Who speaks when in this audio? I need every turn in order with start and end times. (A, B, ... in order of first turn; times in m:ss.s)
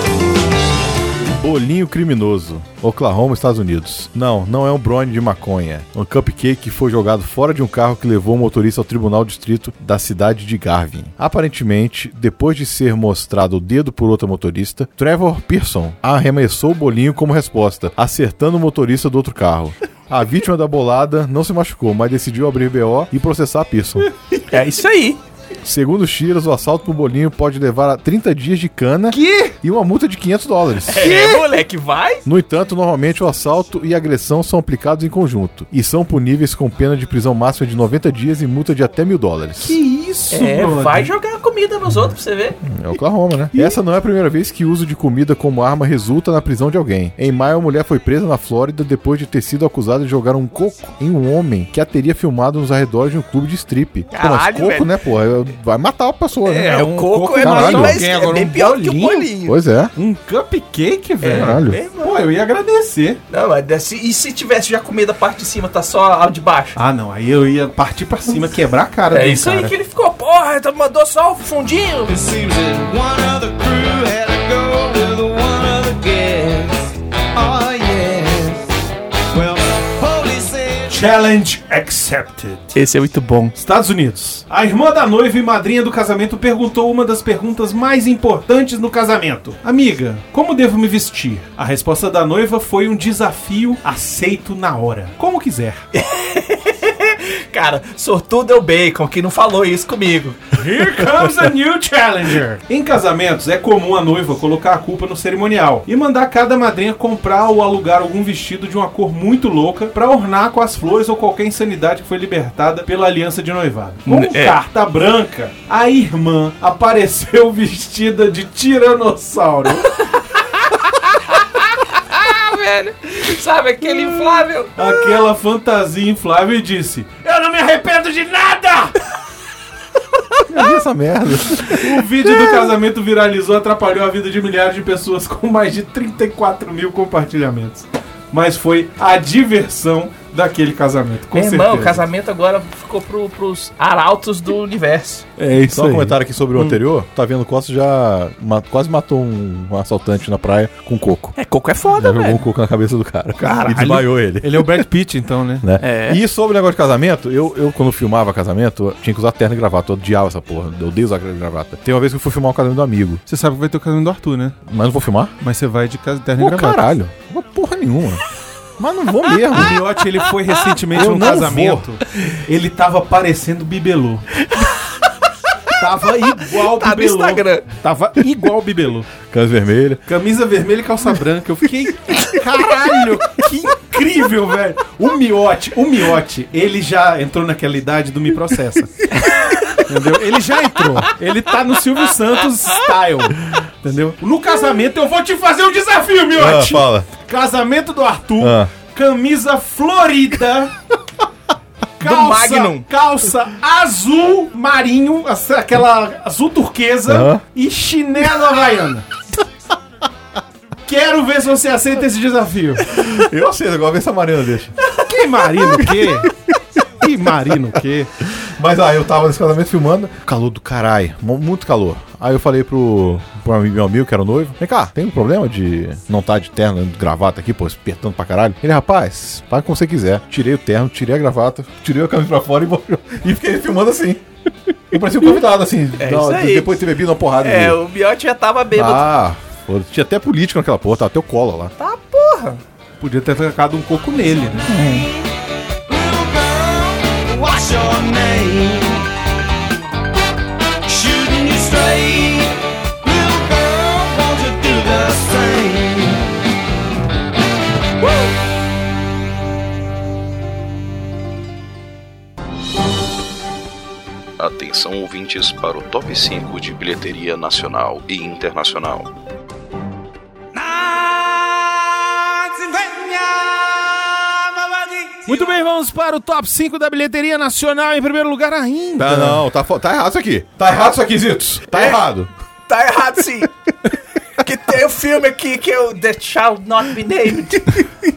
0:01.2-0:24.1 A
0:24.5-0:25.2 B
0:25.6-0:31.4 A
0:29.1-0:29.6 C
0:30.9-0:32.2 B
0:32.2-0:39.8 A
0:39.6-0:41.1 C
0:40.3-0:42.6 B
0:42.6-0:58.0 A
0:54.1-0:54.9 B
0:56.4-0:59.6 B
0:56.6-0:59.3 C
0:59.4-0:59.9 A
0:59.9-1:03.2 C
1:01.2-1:02.2 B
1:01.3-1:01.8 A
1:03.3-1:06.8 B
1:06.8-1:09.7 C
1:09.1-1:12.1 B
1:12.1-1:18.8 D
1:19.3-1:21.1 D
1:20.9-1:22.7 C
1:22.7-1:23.6 B
1:23.6-1:35.9 C
1:35.9-1:40.6 B
1:40.5-2:00.1 C
1:54.1-1:54.6 B
2:01.9-2:05.0 B
2:04.8-2:09.0 C
2:10.5-2:12.0 A
2:11.7-2:22.0 C
2:21.3-2:25.2 B
2:25.4-2:26.2 C
2:25.7-2:31.4 A
2:31.4-2:32.4 B
2:31.9-2:34.9 A
2:33.4-2:35.7 C
2:35.6-2:43.2 A
2:35.8-2:36.2 B
2:43.3-2:44.6 C
2:44.7-2:45.4 A
2:45.4-2:46.9 C
2:46.4-2:48.2 A
2:48.8-2:49.8 A
2:49.5-2:54.5 C
2:50.1-2:50.5 B
2:50.9-2:51.9 A
2:55.8-2:59.1 C
2:56.5-2:57.7 B
2:59.3-3:00.0 A
3:00.1-3:09.1 C
3:09.2-3:09.8 B
3:09.8-3:20.7 C
3:16.4-3:17.1 A
3:18.4-3:18.7 A
3:22.0-3:29.1 C
3:22.0-3:22.8 B
3:27.1-3:27.4 A
3:30.9-3:32.9 C
3:32.9-3:34.8 A
3:34.9-3:36.3 C
3:37.0-3:38.1 C
3:38.2-3:54.2 A
3:54.9-3:57.8 A
3:56.0-3:56.8 B
3:57.4-3:59.1 B
3:58.8-4:01.7 A
4:01.8-4:02.6 B
4:03.0-4:04.7 C
4:04.7-4:05.1 B
4:05.9-4:09.1 D
4:10.8-4:16.2 D
4:24.4-4:29.1 E
4:30.6-4:35.2 D
4:35.2-4:39.4 C
4:39.0-4:42.3 A
4:41.7-4:42.0 B
4:42.7-4:43.5 B
4:44.4-4:47.8 B